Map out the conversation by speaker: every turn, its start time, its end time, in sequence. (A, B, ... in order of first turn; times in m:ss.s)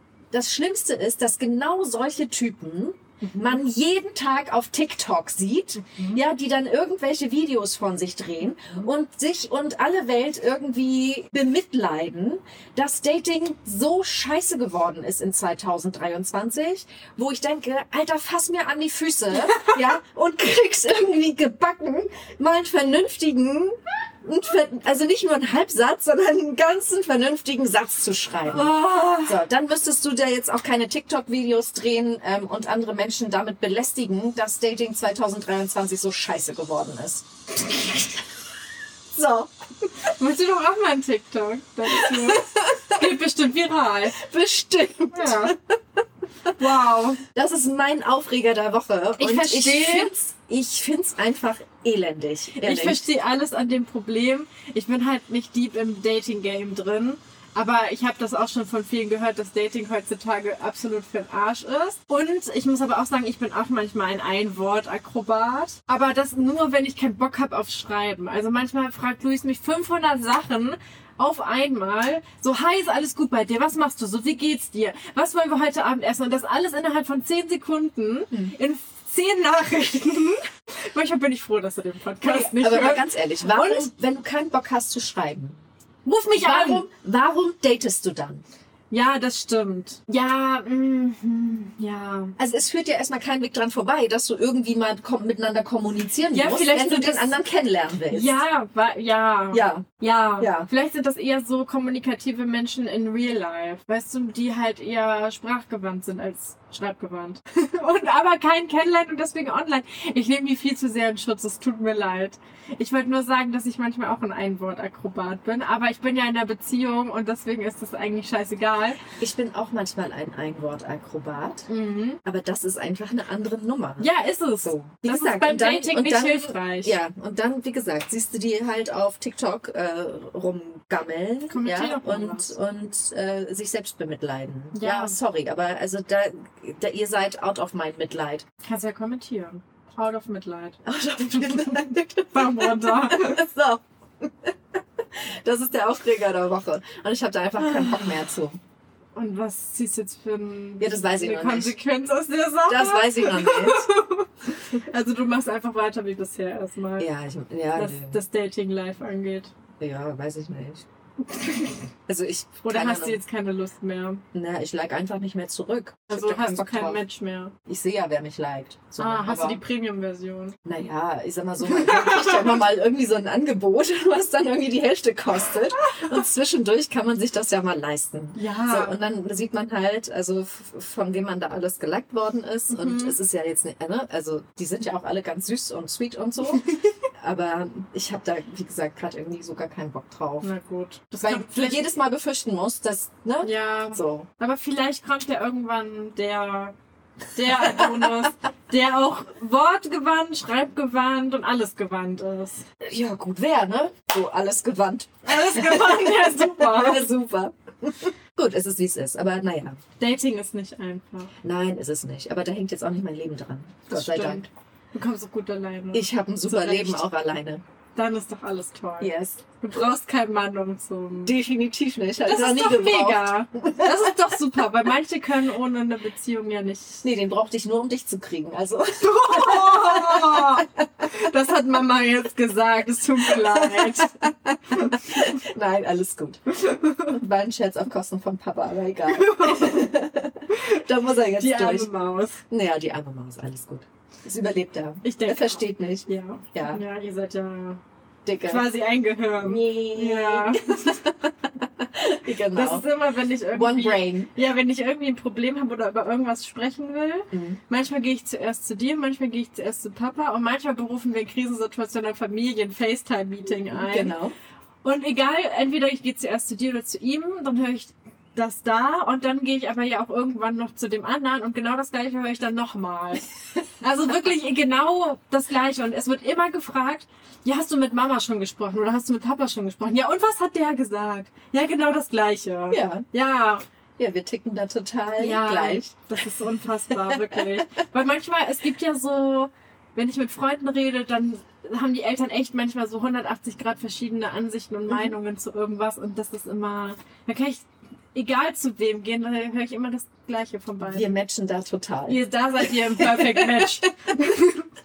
0:00.3-0:37.3 A
0:03.2-0:03.6 B
0:19.5-0:19.8 B
0:28.5-0:29.4 B
0:39.1-0:39.5 A
0:40.0-0:44.2 B
0:41.8-0:43.1 A
0:44.1-0:45.7 A
0:45.1-0:45.5 B
0:46.5-0:47.2 B
0:47.2-0:53.0 A
0:49.2-0:50.1 B
0:52.6-1:23.9 B
1:22.2-1:25.6 A
1:26.0-1:26.9 B
1:26.4-1:28.4 A
1:28.9-1:32.4 B
1:32.4-1:38.4 A
1:36.3-1:37.4 B
1:38.1-1:59.0 B
1:39.5-1:39.9 A
1:40.4-1:40.7 A
1:59.2-2:01.7 A
2:01.7-2:02.2 B
2:02.2-2:18.4 A
2:04.0-2:07.0 B
2:11.5-2:12.5 B
2:14.7-2:15.1 B
2:18.6-2:20.8 B
2:20.8-2:28.6 A
2:21.4-2:23.4 B
2:27.6-2:28.0 B
2:29.2-2:37.1 B
2:30.8-2:31.8 A
2:32.6-2:33.9 A
2:37.0-2:38.2 A
2:37.7-2:39.5 B
2:39.8-2:40.8 A
2:41.3-2:41.8 B
2:42.1-2:43.2 A
2:42.6-2:44.2 B
2:44.3-2:47.0 A
2:46.1-2:47.5 B
2:47.6-2:49.6 A
2:49.0-2:50.6 B
2:50.6-3:10.5 A
2:51.6-2:52.6 B
2:58.3-2:59.0 B
3:02.7-3:03.2 B
3:06.6-3:06.8 B
3:10.4-3:11.9 B
3:11.2-3:14.3 A
3:13.4-3:16.7 B
3:17.3-3:22.7 B
3:17.5-3:18.1 A
3:22.8-3:29.8 A
3:25.2-3:27.1 B
3:30.0-3:31.3 B
3:31.4-3:34.5 A
3:33.9-3:37.0 B
3:35.9-3:37.6 A
3:37.9-3:41.3 B
3:39.0-3:39.4 A
3:41.2-3:44.2 A
3:42.2-3:47.0 B
3:47.0-3:51.1 A
3:49.0-3:55.1 B
3:53.3-4:01.9 A
3:56.5-3:57.2 B
3:59.1-3:59.9 B
4:00.5-4:02.4 B
4:02.5-4:06.8 A
4:05.0-4:07.8 B
4:08.2-4:08.7 A
4:08.4-4:10.9 B
4:09.4-4:12.9 A
4:12.5-4:24.1 B
4:13.5-4:14.3 A
4:17.3-4:17.6 A
4:23.6-4:24.3 A
4:24.8-4:43.6 B
4:42.7-4:43.0 A
4:44.0-4:47.5 A
4:45.2-5:01.1 B
4:54.9-4:55.1 A
5:00.8-5:04.2 A
5:02.1-5:04.7 B